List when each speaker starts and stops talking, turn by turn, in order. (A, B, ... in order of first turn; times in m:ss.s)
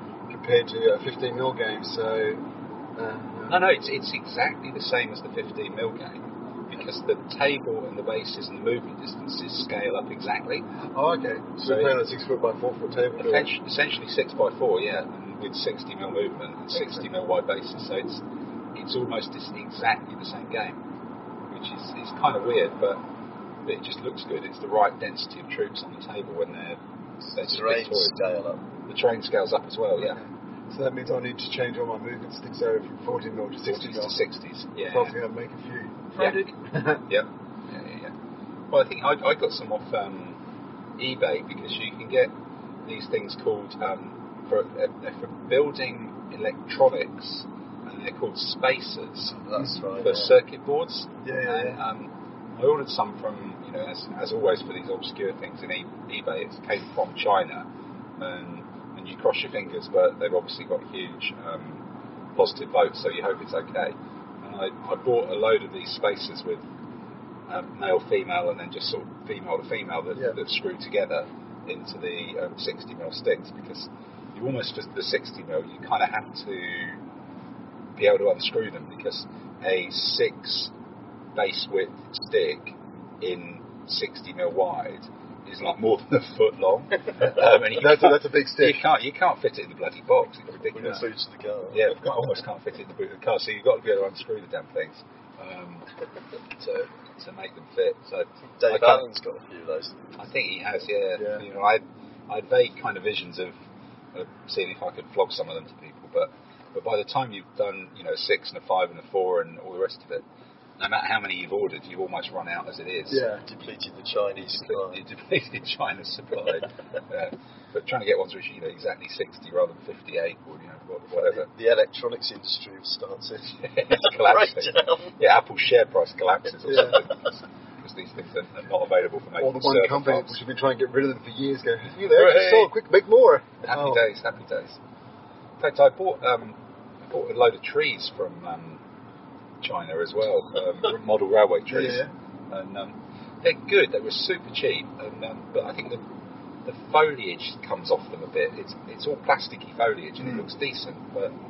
0:00.3-0:02.4 A
0:03.0-0:03.6 A
0:03.5-0:10.6 B
0:10.9-0:13.5 A
0:11.6-0:11.9 B
0:13.2-0:18.2 B
0:18.8-0:20.8 B
0:21.5-0:23.0 B
0:23.7-0:26.8 B
0:27.3-0:28.6 C
0:27.4-0:28.2 B
0:28.9-0:30.2 B
0:30.0-0:34.2 A
0:33.7-0:35.1 B
0:34.9-0:37.0 A
0:36.2-0:36.5 B
0:37.1-0:38.1 B
0:38.7-0:40.4 B
0:41.0-0:42.3 B
0:42.8-0:49.4 B
0:49.4-0:50.3 C
0:50.0-0:57.6 B
0:51.2-0:51.8 A
0:58.2-1:01.8 B
1:02.4-1:06.6 B
1:07.5-1:17.0 B
1:18.0-1:20.7 B
1:21.4-1:31.0 B
1:27.8-1:28.8 A
1:30.7-1:31.9 C
1:31.7-1:35.9 B
1:36.6-1:39.0 B
1:38.6-1:40.0 C
1:40.2-1:43.6 B
1:44.1-1:50.2 B
1:50.8-1:53.2 B
1:53.1-1:53.4 A
1:53.3-1:55.0 C
1:54.6-2:01.5 B
2:01.2-2:05.1 C
2:03.6-2:07.3 B
2:06.7-2:07.0 A
2:07.8-2:10.4 B
2:09.4-2:14.0 A
2:12.1-2:12.7 B
2:13.6-2:14.8 B
2:15.6-2:18.8 B
2:19.6-2:26.0 B
2:21.7-2:22.1 A
2:26.6-2:31.3 B
2:30.2-2:30.5 A